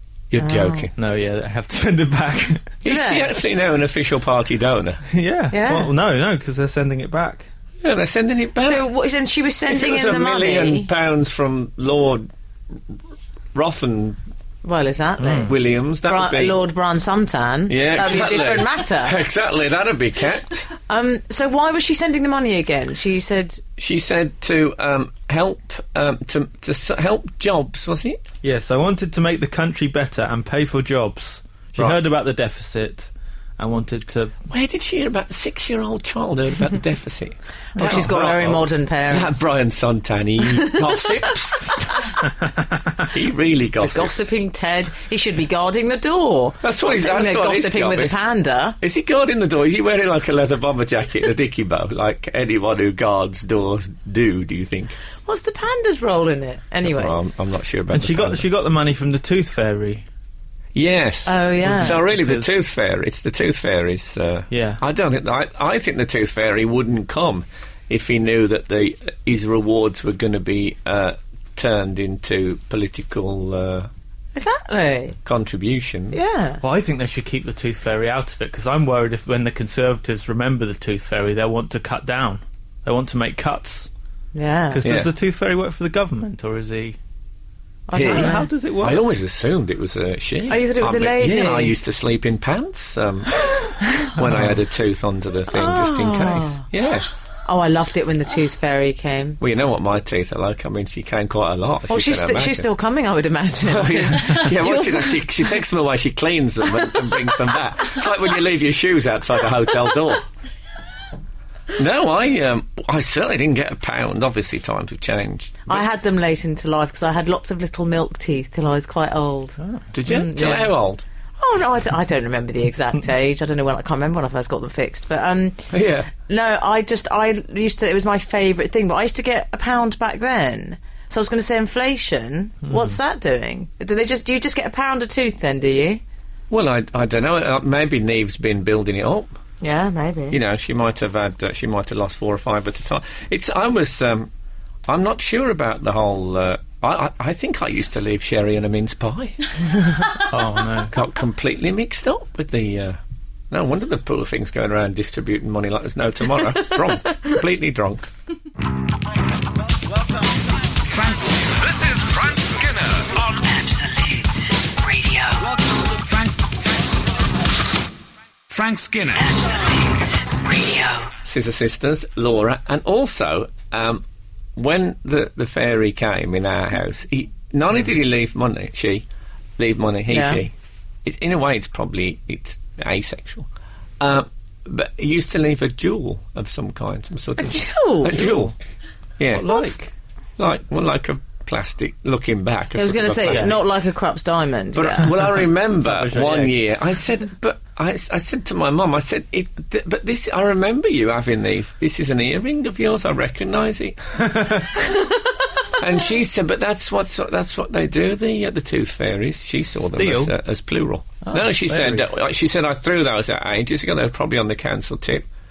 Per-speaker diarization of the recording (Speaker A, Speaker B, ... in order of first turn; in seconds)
Speaker A: 0.3-0.9, 2.8-5.0, 7.8-8.8, 9.7-12.3, 13.5-14.2, 15.4-16.6, 17.7-20.7, 23.8-28.2, 34.5-41.9, 43.0-44.3, 46.6-48.2, 48.8-55.0, 56.8-58.5, 60.7-73.9, 75.2-76.2, 84.8-85.1, 87.9-97.1, 99.4-102.7, 103.6-110.2, 111.8-115.8, 119.9-121.0, 125.7-126.1, 136.5-139.3, 140.3-144.3, 144.9-149.4, 150.9-153.0, 153.5-158.1, 171.2-174.0, 174.6-179.1, 179.6-180.5, 181.0-183.5, 184.0-188.5, 189.2-189.8, 190.4-193.6, 194.7-204.0, 205.8-215.2
Speaker B: 0.4-0.9, 2.8-3.3, 5.5-5.9, 8.6-10.9, 14.6-19.2, 20.9-23.6, 37.8-39.4, 40.5-41.3, 43.8-48.8, 55.2-57.2, 61.2-62.0, 74.3-75.2, 76.1-76.6, 84.3-84.8, 87.9-88.5, 90.5-91.8, 95.5-96.6, 97.5-99.4, 101.9-105.3, 115.7-120.7, 121.4-136.0, 139.6-140.4, 180.1-180.4, 187.4-188.2, 192.8-195.1
Speaker C: 0.9-2.7, 5.1-7.5, 15.2-15.5, 28.4-34.3, 37.8-38.0, 57.9-60.0, 61.6-62.5, 64.5-64.8, 76.6-83.9, 84.7-87.0, 88.0-89.0, 94.3-94.5, 150.3-150.9, 188.2-188.5, 189.3-189.9, 193.3-193.6, 195.8-196.5, 204.3-204.6, 209.9-210.3, 211.2-212.1
Speaker D: 160.8-163.4, 165.9-166.8, 168.5-169.7
Speaker E: 163.3-165.6, 169.1-171.1